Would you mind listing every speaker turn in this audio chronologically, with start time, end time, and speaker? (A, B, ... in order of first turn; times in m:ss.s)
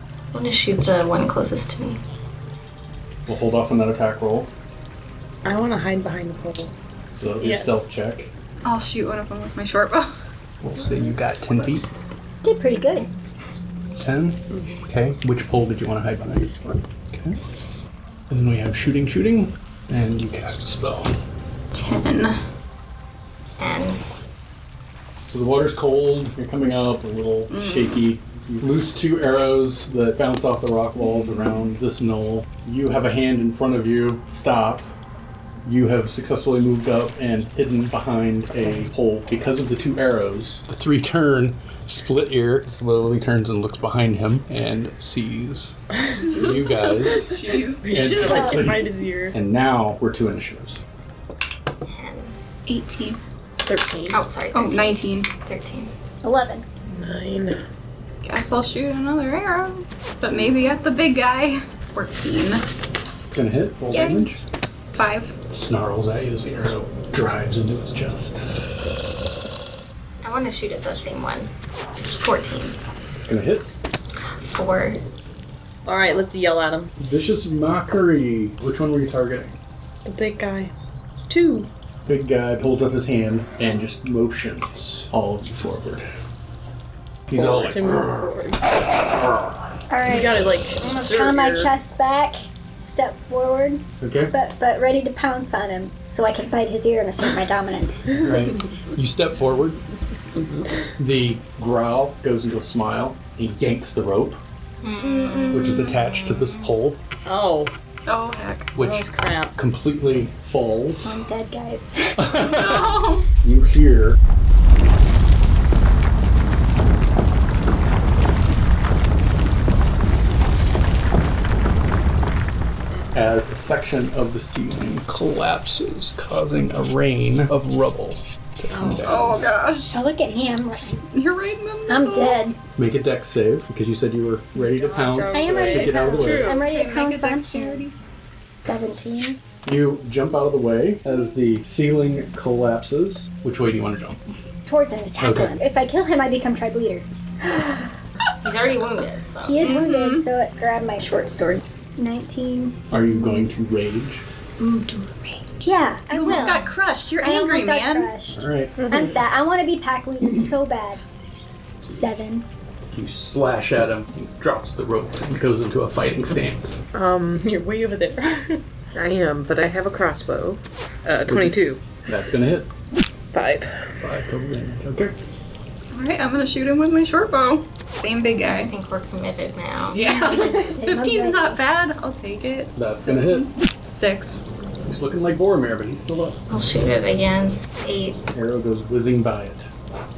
0:00.3-0:02.0 A
0:03.3-0:04.5 B
0:05.4-0:06.7 C
0:07.2-0:08.3 B
0:07.4-0:07.9 C
0:08.6-0:10.1 D
0:10.6-0:11.9 B
0:12.4-0:13.1 E
0:14.0-0:16.5 B
0:16.3-0:16.8 C
0:17.1-0:17.4 B
0:18.3-0:21.1 B
0:21.7-0:22.4 D
0:23.6-0:24.0 A
0:25.3-0:34.9 B
0:27.5-0:28.1 D
0:35.6-0:45.8 B
0:46.3-0:48.1 D
0:46.3-0:47.3 B
0:47.1-0:49.4 C
0:47.9-0:50.8 B
0:48.3-0:48.7 E
0:51.9-0:52.3 A
0:52.7-0:53.2 D
0:53.6-0:54.2 C
0:54.1-0:55.9 A
0:54.5-0:55.3 D
0:56.2-0:56.6 E
0:57.0-0:57.6 F
0:57.1-0:57.5 C
0:58.2-1:02.6 D
1:03.3-1:04.4 B
1:03.9-1:04.3 D
1:04.9-1:05.3 D
1:05.5-1:08.5 B
1:10.2-1:11.5 A
1:12.2-1:12.8 A
1:13.2-1:13.7 B
1:14.4-1:15.0 A
1:15.8-1:16.9 C
1:17.0-1:19.6 B
1:20.0-1:20.7 C
1:21.3-1:21.7 C
1:22.1-1:26.1 B
1:27.3-1:28.3 B
1:27.3-1:28.7 C
1:29.9-1:38.2 E
1:30.0-1:31.7 C
1:34.0-1:34.3 B
1:38.2-1:39.8 B
1:40.4-1:40.6 C
1:41.0-1:44.4 B
1:44.8-1:46.6 A
1:45.0-1:45.9 D
1:45.5-1:47.0 B
1:47.2-1:47.7 C
1:48.1-1:48.8 D
1:48.8-1:51.2 B
1:48.8-1:49.6 C
1:51.0-1:52.4 E
1:52.2-1:54.2 B
1:52.4-1:53.2 D
2:03.1-2:09.5 B
2:08.7-2:09.1 C
2:09.0-2:10.0 D
2:09.9-2:11.0 E
2:11.1-2:12.4 D
2:11.9-2:12.6 E
2:12.8-2:16.5 B
2:14.6-2:16.6 C
2:15.3-2:17.8 E
2:16.6-2:18.0 D
2:18.6-2:19.4 E
2:19.6-2:24.2 B
2:24.7-2:27.9 E
2:25.2-2:25.6 B
2:28.4-2:29.7 A
2:29.4-2:32.8 E
2:29.6-2:30.3 D
2:32.9-2:34.3 B
2:34.6-2:35.5 D
2:35.6-2:41.0 E
2:36.1-2:38.1 D
2:38.3-2:38.8 B
2:41.9-2:42.5 E
2:42.9-2:46.8 B
2:46.9-2:47.4 F
2:47.4-2:48.6 C
2:48.9-2:51.8 F
2:51.3-2:52.7 B
2:53.3-2:53.9 F
2:54.0-2:55.2 B
2:55.9-2:58.7 D
2:58.6-3:00.0 A
2:59.9-3:04.4 D
3:00.1-3:01.6 E
3:02.8-3:03.5 B
3:04.8-3:06.4 B
3:06.5-3:08.2 A
3:08.3-3:09.7 B